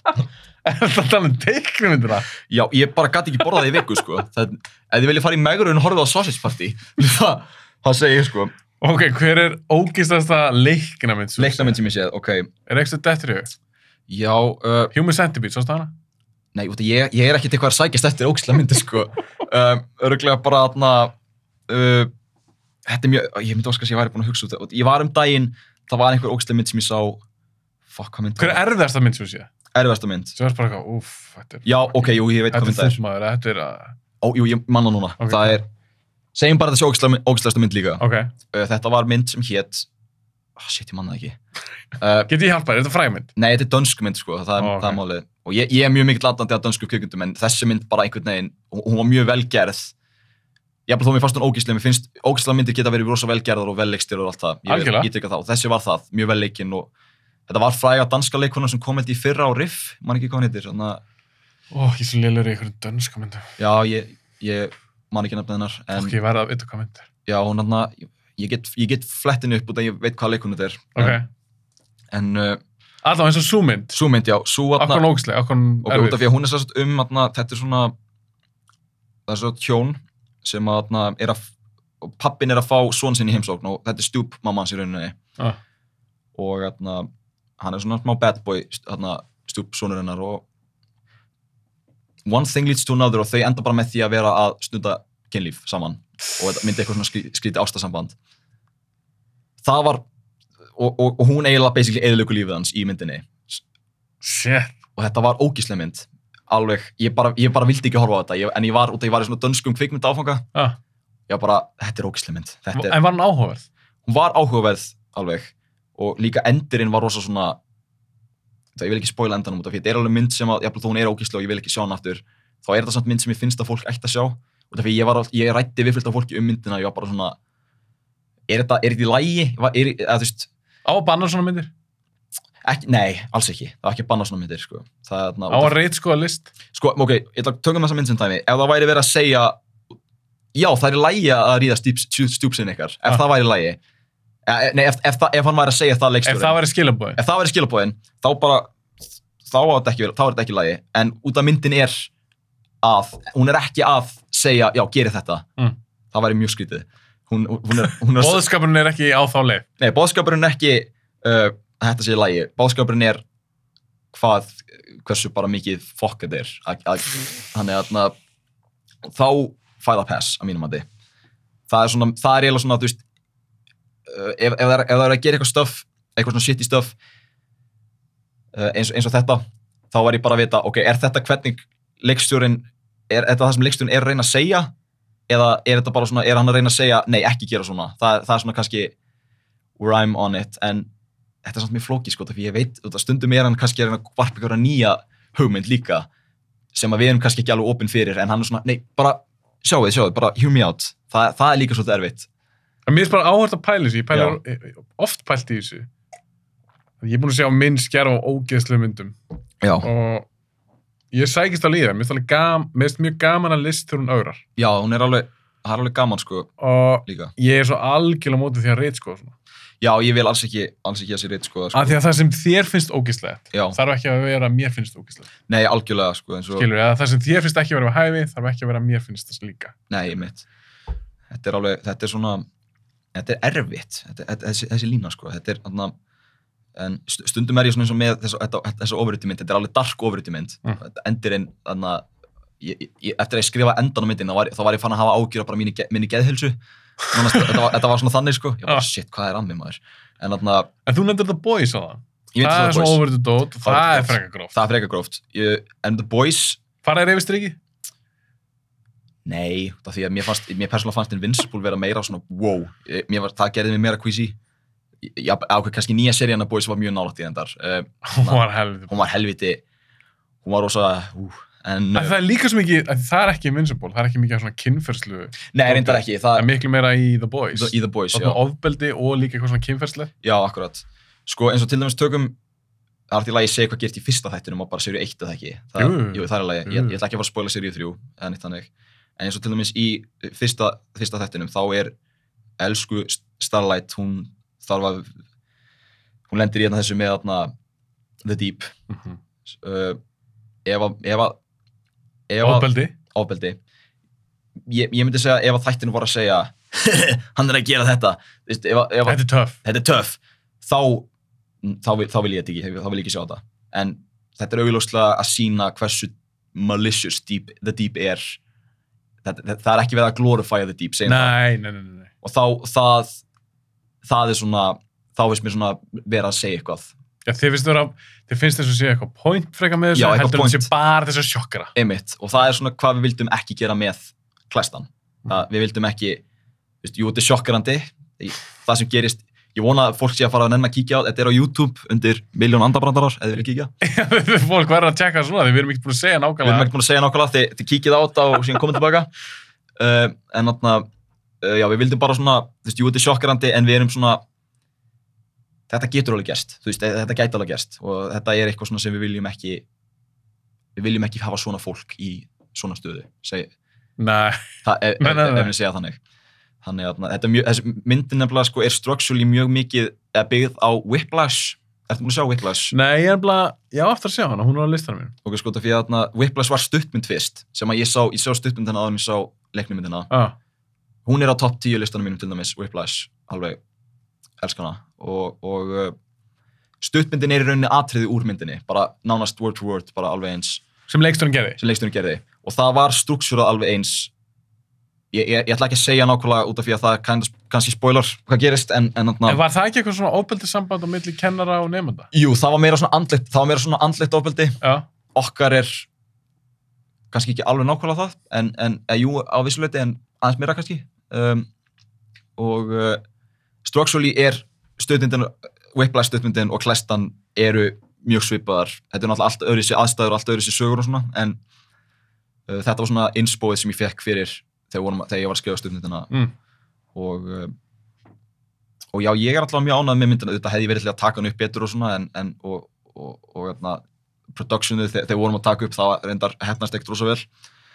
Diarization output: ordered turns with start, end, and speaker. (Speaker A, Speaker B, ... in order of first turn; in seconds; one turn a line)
Speaker A: 0.6-2.3
Speaker B: 2.5-8.5
Speaker A: 8.8-11.8
Speaker B: 11.4-12.5
Speaker A: 12.7-13.5
Speaker B: 14.1-14.9
Speaker A: 14.9-15.9
Speaker B: 16.5-21.1
Speaker B: 21.7-22.1
Speaker B: 22.9-27.2
Speaker B: 27.9-28.6
Speaker A: 28.4-29.5
Speaker B: 29.7-30.3
Speaker A: 30.4-31.7
Speaker B: 31.6-33.0
Speaker A: 32.5-34.0
Speaker B: 34.2-35.6
Speaker A: 35.2-35.6
Speaker B: 36.3-39.9
Speaker A: 38.0-38.3
Speaker B: 40.6-41.4
Speaker B: 42.0-42.3
Speaker A: 42.3-43.3
Speaker B: 43.4-49.9
Speaker A: 44.6-45.0
Speaker B: 50.9-56.9
Speaker A: 54.7-55.1
Speaker B: 57.5-61.0
Speaker A: 61.7-63.5
Speaker B: 63.6-66.1
Speaker A: 65.9-67.1
Speaker B: 67.2-71.2
Speaker A: 70.9-71.3
Speaker B: 72.1-72.6
Speaker A: 73.0-74.0
Speaker B: 73.9-75.0
Speaker A: 74.8-76.2
Speaker B: 75.8-77.9
Speaker B: 79.3-81.5
Speaker B: 82.0-85.2
Speaker B: 86.3-87.1
Speaker B: 87.6-90.4
Speaker B: 92.2-98.2
Speaker B: 99.6-100.0
Speaker B: 100.8-103.6
Speaker A: 104.2-104.8
Speaker B: 105.0-110.4
Speaker B: 111.3-113.0
Speaker A: 112.7-113.7
Speaker B: 114.0-117.6
Speaker B: 118.8-127.4
Speaker B: 128.5-130.5
Speaker A: 130.8-131.7
Speaker B: 132.6-135.7
Speaker A: 135.5-136.5
Speaker B: 136.7-139.6
Speaker B: 140.5-143.8
Speaker B: 144.4-146.6
Speaker A: 146.2-147.2
Speaker B: 147.2-148.7
Speaker B: 149.4-152.1
Speaker B: 152.8-155.4
Speaker B: 156.1-158.4
Speaker A: 157.8-159.7
Speaker B: 159.8-163.2
Speaker B: 164.1-168.1
Speaker B: 169.0-170.8
Speaker B: 171.7-173.0
Speaker B: 174.1-176.9
Speaker B: 178.5-184.7
Speaker B: 185.3-188.9
Speaker B: 189.8-190.9
Speaker B: 191.4-196.1
Speaker B: 196.7-202.3
Speaker A: 202.9-205.9
Speaker B: 204.1-204.4
Speaker A: 207.0-209.2
Speaker B: 209.6-209.9
Speaker A: 209.8-210.3
Speaker A: 211.1-214.4
Speaker B: 214.6-216.5
Speaker A: 216.6-219.3
Speaker B: 217.1-217.3
Speaker B: 219.8-222.0
Speaker A: 221.7-225.3
Speaker B: 225.5-226.7
Speaker A: 226.5-229.7
Speaker B: 229.9-230.4
Speaker B: 231.3-232.4
Speaker B: 233.1-235.9
Speaker B: 236.7-242.1
Speaker B: 242.6-246.6
Speaker A: 247.1-247.6
Speaker B: 247.1-250.7
Speaker A: 250.8-254.6
Speaker B: 252.3-253.0
Speaker B: 253.6-256.6
Speaker A: 256.8-257.6
Speaker B: 259.2-264.4
Speaker B: 265.0-269.6
Speaker A: 268.0-268.9
Speaker B: 270.4-272.1
Speaker A: 271.9-280.1
Speaker B: 275.5-276.5
Speaker B: 277.5-278.4
Speaker B: 280.2-282.4
Speaker B: 283.1-291.9
Speaker A: 285.8-287.0
Speaker B: 292.6-295.1
Speaker B: 296.3-297.5
Speaker B: 298.2-298.7
Speaker A: 298.9-299.2
Speaker B: 299.5-300.0
Speaker B: 300.6-301.4
Speaker B: 302.3-303.6
Speaker A: 302.4-302.9
Speaker B: 304.6-311.1
Speaker A: 309.1-309.6
Speaker B: 311.6-318.4
Speaker B: 319.2-321.4
Speaker A: 321.0-322.1
Speaker B: 322.2-323.2
Speaker B: 324.0-326.9
Speaker A: 327.2-331.7
Speaker B: 329.9-330.7
Speaker B: 331.8-336.2
Speaker B: 336.8-343.7
Speaker A: 343.8-346.7
Speaker B: 346.4-349.1
Speaker B: 349.8-350.9
Speaker B: 351.4-354.2
Speaker B: 355.7-359.6
Speaker B: 360.8-363.5
Speaker A: 364.0-364.5
Speaker B: 364.6-366.0
Speaker A: 365.0-365.5
Speaker B: 366.6-372.7
Speaker A: 372.7-375.1
Speaker B: 375.2-380.1
Speaker A: 380.1-380.4
Speaker B: 381.1-383.6
Speaker B: 384.4-385.9
Speaker B: 386.8-390.6
Speaker A: 390.9-391.6
Speaker B: 391.6-394.1
Speaker B: 395.1-399.4
Speaker A: 399.2-402.1
Speaker B: 402.1-404.6
Speaker A: 404.6-404.9
Speaker B: 405.1-405.9
Speaker B: 407.1-411.5
Speaker B: 412.4-413.0
Speaker B: 413.6-421.4
Speaker B: 422.5-426.1
Speaker B: 426.9-427.5
Speaker B: 428.9-437.3